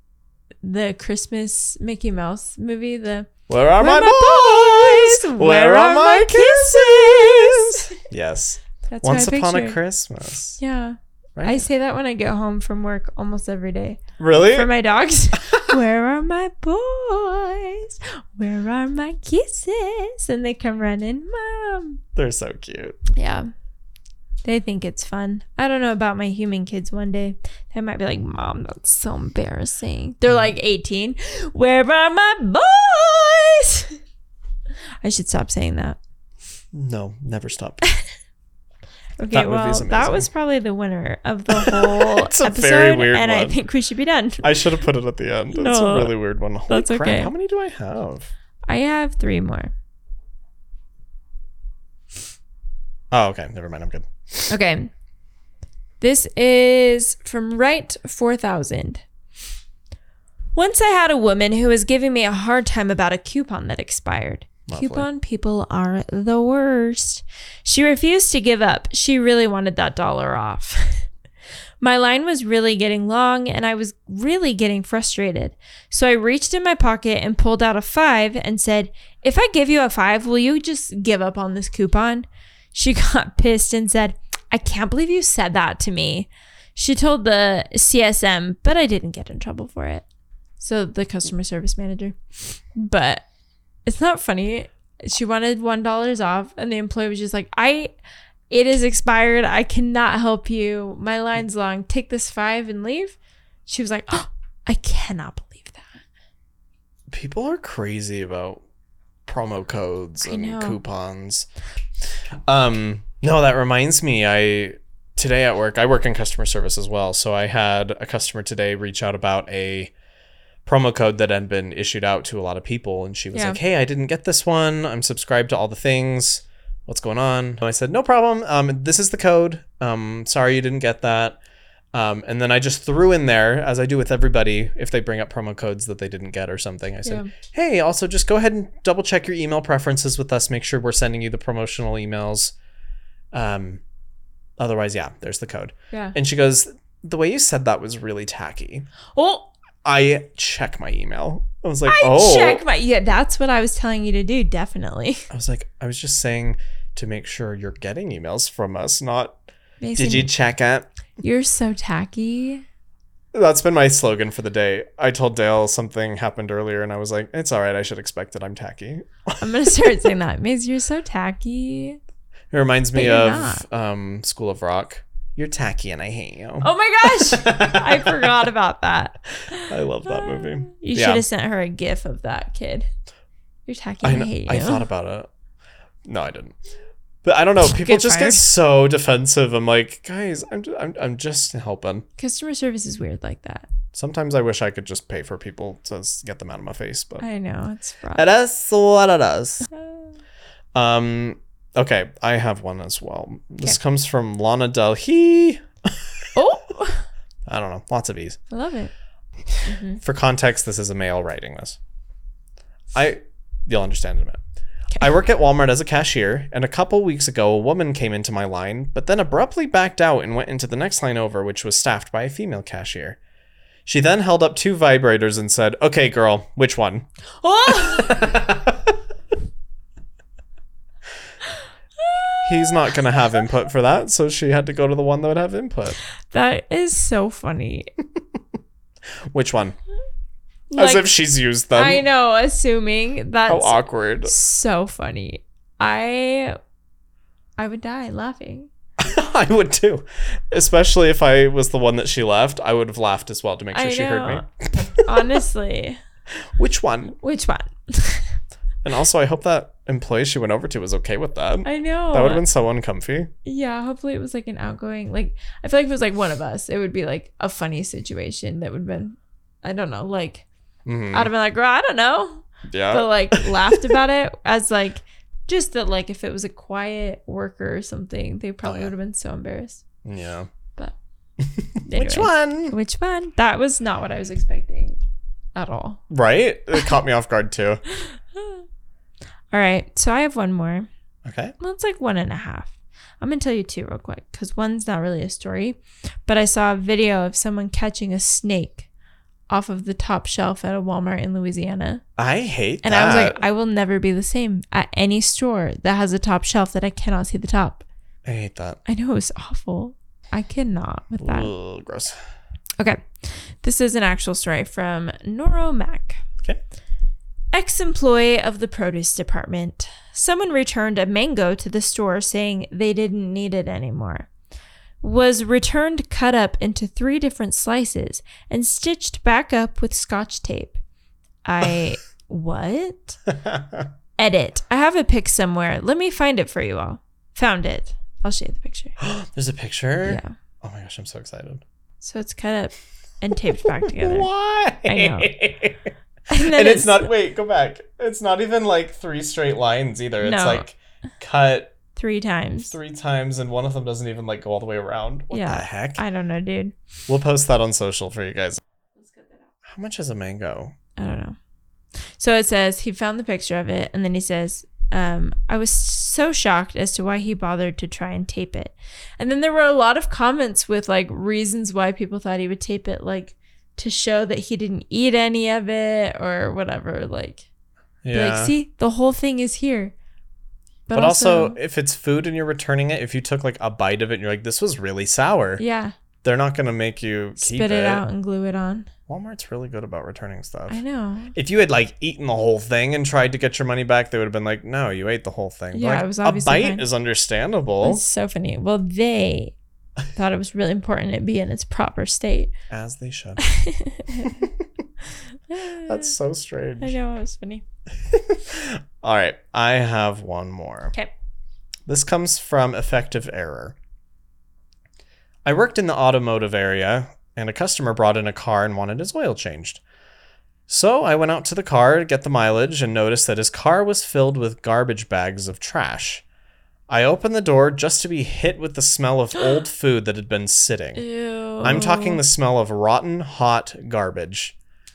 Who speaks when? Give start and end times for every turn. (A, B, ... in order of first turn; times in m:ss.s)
0:00.6-0:08.0 A
0:03.5-0:10.6 B
0:08.9-0:09.8 A
0:10.6-0:22.0 A
0:11.4-0:11.6 B
0:14.2-0:14.7 B
0:22.2-0:23.0 B
0:23.1-0:23.5 A
0:24.4-0:34.0 A
0:35.0-0:36.0 A
0:36.7-0:37.8 B
0:39.2-0:44.6 A
0:39.3-0:40.3 B
0:41.5-0:43.6 B
0:44.4-0:48.3 B
0:45.5-0:46.2 A
0:46.7-0:47.3 A
0:48.7-0:49.7 A
0:53.1-0:54.1 B
0:54.5-0:54.9 A
0:56.0-0:59.0 A
1:00.5-1:11.1 A
1:04.7-1:05.1 B
1:11.8-1:30.0 A
1:30.6-1:33.2 A
1:33.8-1:37.9 A
1:38.5-1:46.0 A
1:47.1-1:48.6 B
1:49.2-1:51.5 B
1:50.2-1:50.8 A
1:52.5-1:59.9 B
2:00.6-2:11.4 B
2:03.3-2:03.6 A
2:11.9-2:22.5 B
2:17.0-2:17.3 A
2:23.3-2:23.8 B
2:24.6-2:28.9 B
2:29.1-2:29.5 A
2:29.8-2:32.6 B
2:31.9-2:35.3 A
2:35.3-2:39.4 B
2:39.8-2:40.3 A
2:40.0-2:40.9 B
2:41.2-2:42.6 A
2:43.3-2:49.9 B
2:49.4-2:52.0 A
2:52.5-2:58.5 B
2:52.9-2:53.6 A
2:56.6-3:02.9 A
2:59.6-3:01.2 B
3:03.6-3:04.8 A
3:04.0-3:05.3 B
3:06.0-3:06.6 B
3:07.2-3:12.0 B
3:07.6-3:08.4 A
3:12.2-3:13.7 A
3:13.9-3:17.2 B
3:17.2-3:18.2 A
3:18.2-3:19.6 B
3:19.7-3:20.2 A
3:20.7-3:26.0 B
3:26.3-3:27.0 A
3:27.4-3:28.4 B
3:28.5-3:28.9 A
3:29.6-3:30.0 A
3:30.0-3:31.8 B
3:32.9-3:34.4 B
3:35.0-3:43.2 B
3:43.8-3:47.0 B
3:47.4-3:48.4 A
3:47.6-3:49.0 B
3:52.0-3:53.3 A
3:52.4-3:56.0 B
3:56.3-3:57.9 A
3:59.3-3:59.8 B
4:00.7-4:01.1 A
4:00.8-4:02.0 B
4:01.7-4:06.6 A
4:03.5-4:04.3 B
4:07.6-4:08.7 A
4:09.0-4:15.4 B
4:13.7-4:16.0 A
4:16.6-4:17.2 B
4:17.2-4:18.4 A
4:18.8-4:23.3 B
4:21.6-4:22.4 A
4:23.4-4:30.4 A
4:30.8-4:31.3 B
4:31.1-4:39.8 A
4:32.7-4:33.9 B
4:38.6-4:38.9 B
4:40.0-4:40.5 B
4:41.4-4:42.8 B
4:41.8-4:45.0 A
4:45.5-4:46.0 A
4:46.1-4:47.8 B
4:47.9-4:48.6 A
4:49.5-4:50.9 A
4:51.2-4:51.5 B
4:51.6-4:58.9 A
4:59.5-5:02.0 A
5:02.2-5:03.4 B
5:02.8-5:07.8 A
5:08.2-5:08.8 B
5:08.8-5:11.5 A
5:11.2-5:12.2 B
5:12.8-5:16.2 A
5:17.5-5:24.3 A
5:25.0-5:30.8 A
5:31.4-5:33.2 A
5:33.3-5:33.9 B
5:34.2-5:39.0 A
5:39.0-5:41.6 B
5:40.0-5:40.3 A
5:42.0-5:44.3 A
5:43.6-5:45.8 B
5:44.8-5:45.3 A
5:46.3-5:47.1 A
5:46.4-5:51.8 B
5:50.2-5:50.6 A
5:52.0-5:52.8 A
5:52.6-5:56.0 B
5:55.3-5:56.7 A
5:57.1-5:58.6 B
5:59.0-5:59.4 A
5:59.6-6:00.7 B
6:01.0-6:01.4 A
6:02.2-6:17.4 A
6:18.0-6:18.5 B
6:18.1-6:19.9 A
6:20.9-6:21.6 A
6:20.9-6:25.6 B
6:25.6-6:25.9 A
6:26.2-6:28.0 B
6:27.4-6:28.9 A
6:29.1-6:30.8 B
6:30.7-6:31.3 A
6:31.3-6:38.0 B
6:35.7-6:36.8 A
6:37.8-6:39.5 A
6:40.1-6:42.5 A
6:42.7-6:43.4 B
6:43.4-6:44.5 A
6:44.2-6:44.6 B
6:45.5-6:46.1 A
6:45.8-6:47.0 B
6:46.8-6:47.6 A
6:48.1-6:50.9 B
6:51.8-6:53.8 B
6:55.4-6:59.8 B
7:00.7-7:06.2 B
7:06.9-7:11.0 B
7:11.0-7:12.2 A
7:11.6-7:14.5 B